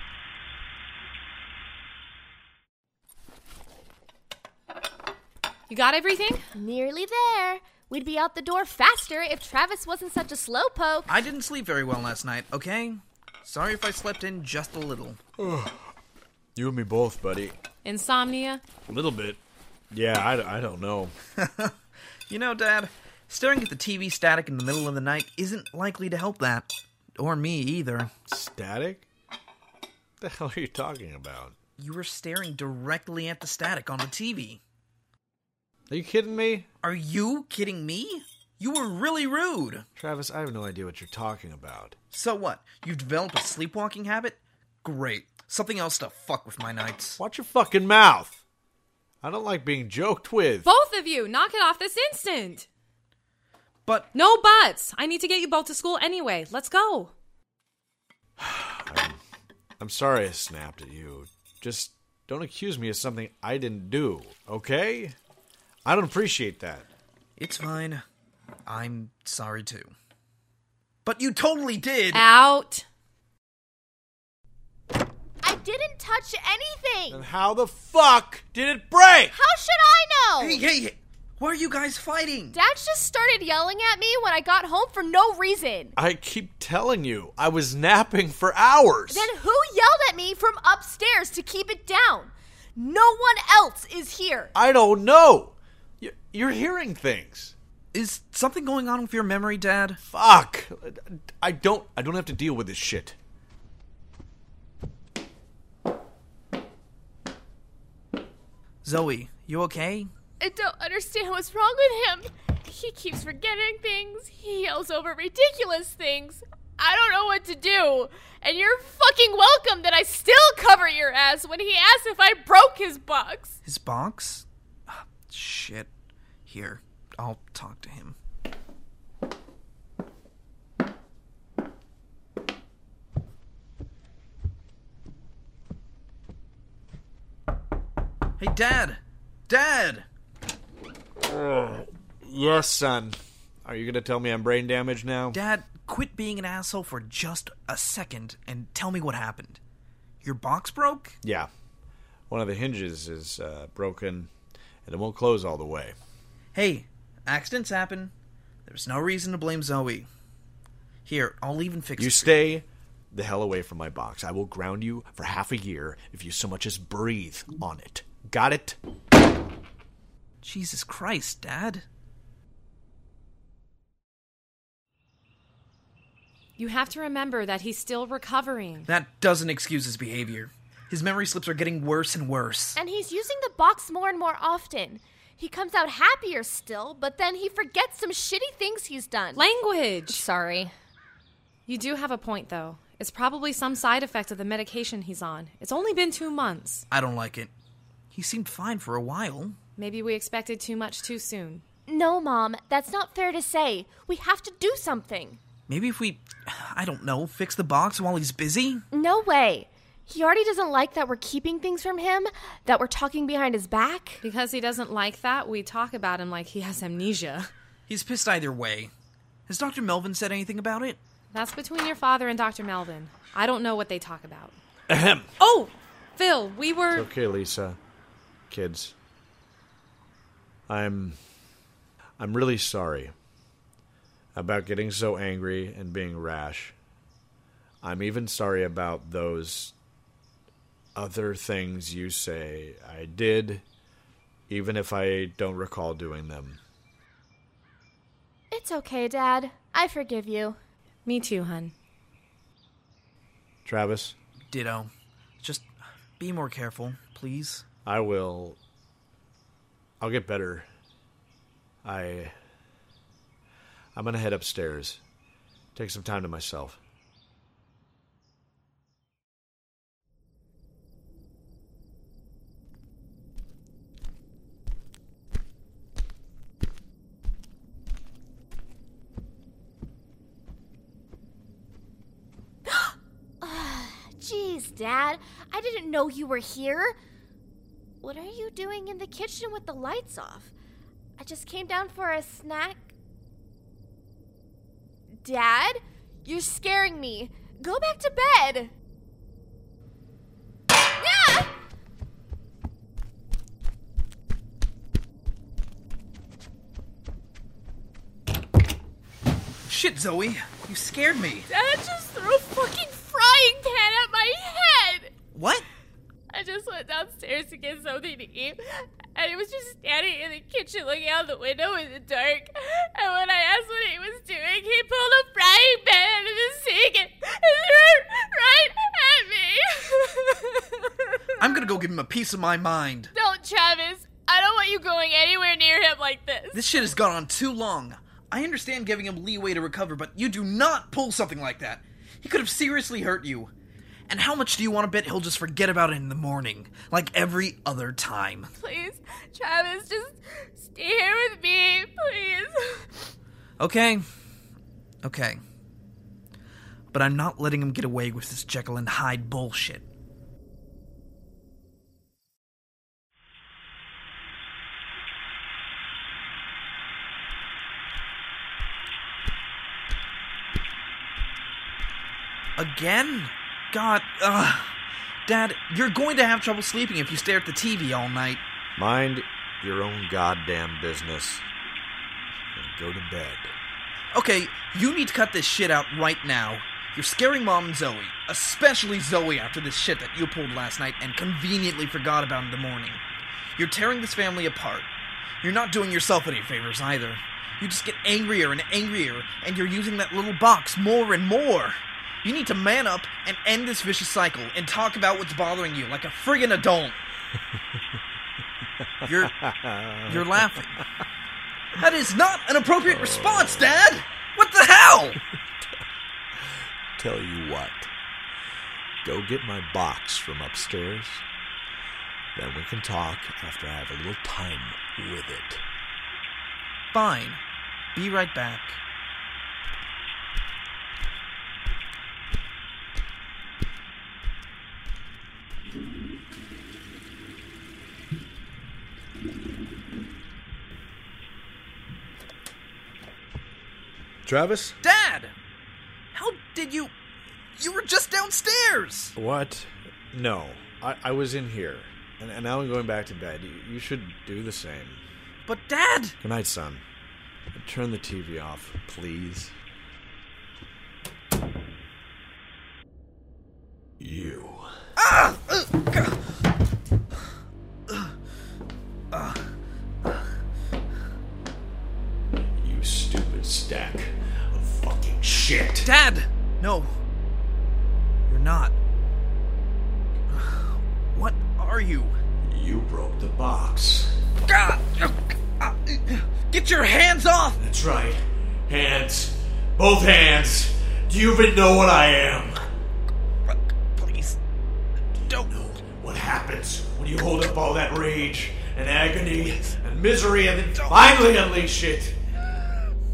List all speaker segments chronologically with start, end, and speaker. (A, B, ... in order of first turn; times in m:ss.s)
0:05.7-0:06.5 A
0:06.6-0:11.1 B
0:11.1-0:15.2 C
0:15.4-0:15.9 D
0:16.6-0:17.6 D
0:17.8-0:18.6 A
0:18.9-0:19.4 D
0:19.9-0:21.1 D
0:21.4-0:21.8 C
0:22.3-0:28.1 C
0:28.3-0:29.1 D
0:30.2-0:31.6 D
0:31.8-0:34.6 C
0:35.9-0:36.7 D
0:36.8-0:39.9 C
0:40.0-0:42.0 D
0:42.1-0:47.2 C
0:47.2-0:48.4 D
0:49.2-0:50.7 D
0:50.6-0:52.7 A
0:54.1-0:57.1 A
0:58.4-0:59.2 D
0:59.8-1:05.2 D
1:05.8-1:06.9 D
1:07.4-1:08.0 C
1:08.7-1:09.9 C
1:11.0-1:12.2 C
1:12.1-1:12.9 A
1:15.4-1:17.2 B
1:17.1-1:19.4 D
1:19.3-1:20.6 B
1:20.4-1:22.6 C
1:22.5-1:26.0 B
1:26.0-1:29.3 D
1:29.1-1:34.5 B
1:34.5-1:37.6 D
1:37.9-1:40.0 C
1:40.0-1:43.2 D
1:48.8-1:50.1 C
1:50.4-2:03.6 B
2:03.6-2:05.9 C
2:06.5-2:08.2 C
2:18.4-2:20.1 C
2:21.2-2:25.4 D
2:25.3-2:29.6 C
2:30.2-2:31.2 C
2:31.2-2:31.5 D
2:32.3-2:34.3 D
2:34.8-2:36.0 D
2:36.5-2:38.1 C
2:38.7-2:40.1 C
2:41.1-2:42.4 C
2:42.0-2:48.8 D
2:50.4-2:51.9 C
2:56.6-2:58.9 A
2:58.9-3:02.8 C
3:02.8-3:09.4 B
3:09.4-3:10.2 A
3:10.1-3:10.7 B
3:11.7-3:16.9 A
3:16.9-3:17.5 C
3:18.1-3:19.6 C
3:19.8-3:21.6 A
3:21.9-3:25.4 B
3:25.7-3:28.8 C
3:28.9-3:34.2 B
3:34.2-3:37.5 A
3:37.9-3:38.9 C
3:39.5-3:41.0 C
3:41.3-3:44.6 A
3:44.9-3:45.3 D
3:45.4-3:47.1 A
3:46.9-3:47.8 D
3:48.5-3:49.0 D
3:50.7-3:51.2 D
3:52.2-3:53.1 D
3:54.4-3:56.8 D
3:57.8-3:59.8 D
4:01.0-4:03.6 D
4:04.5-4:06.6 D
4:08.5-4:10.6 B
4:11.1-4:11.7 A
4:13.6-4:14.2 D
4:14.5-4:17.7 C
4:17.9-4:18.6 D
4:20.0-4:20.7 D
4:21.8-4:22.4 D
4:24.0-4:25.0 D
4:25.8-4:26.8 D
4:42.7-4:47.0 B
4:48.0-4:50.5 B
4:51.2-4:52.9 B
4:55.2-4:58.7 B
5:01.0-5:01.5 B
5:09.6-5:11.5 C
5:11.5-5:15.1 B
5:15.3-5:15.7 C
5:16.3-5:31.5 B
5:31.4-5:33.1 C
5:33.1-5:36.8 B
5:36.5-5:43.5 C
5:44.1-5:48.5 C
5:48.6-5:53.1 B
5:53.6-5:54.0 C
5:55.0-5:55.4 C
5:56.9-5:59.8 C
6:12.6-6:18.4 C
6:18.8-6:21.5 D
6:22.6-6:23.6 D
6:24.1-6:33.0 C
6:33.6-6:34.9 C
6:35.4-6:47.0 C
6:49.0-6:49.3 C
6:49.3-6:50.2 D
6:50.1-6:50.8 C
6:51.8-6:55.2 C
6:52.9-6:53.8 D
6:56.4-6:57.9 D
6:59.0-7:01.2 D
7:02.3-7:05.6 D
7:06.9-7:07.4 C
7:08.0-7:08.8 C
7:24.2-7:24.8 D
7:24.8-7:25.4 C
7:26.1-7:26.9 C
7:27.5-7:29.1 C
7:29.2-7:35.0 D
7:35.5-7:36.2 C
7:36.2-7:36.8 D
7:37.5-7:39.6 D
7:44.0-7:44.7 D
7:45.0-7:46.2 C
7:49.1-7:49.5 C
7:52.6-7:55.9 D
7:55.8-7:57.0 C
7:58.3-7:58.8 C
8:00.3-8:02.2 C
8:02.4-8:04.2 D
8:04.5-8:07.6 C
8:07.6-8:12.6 D
8:14.0-8:14.4 C
8:15.3-8:22.2 D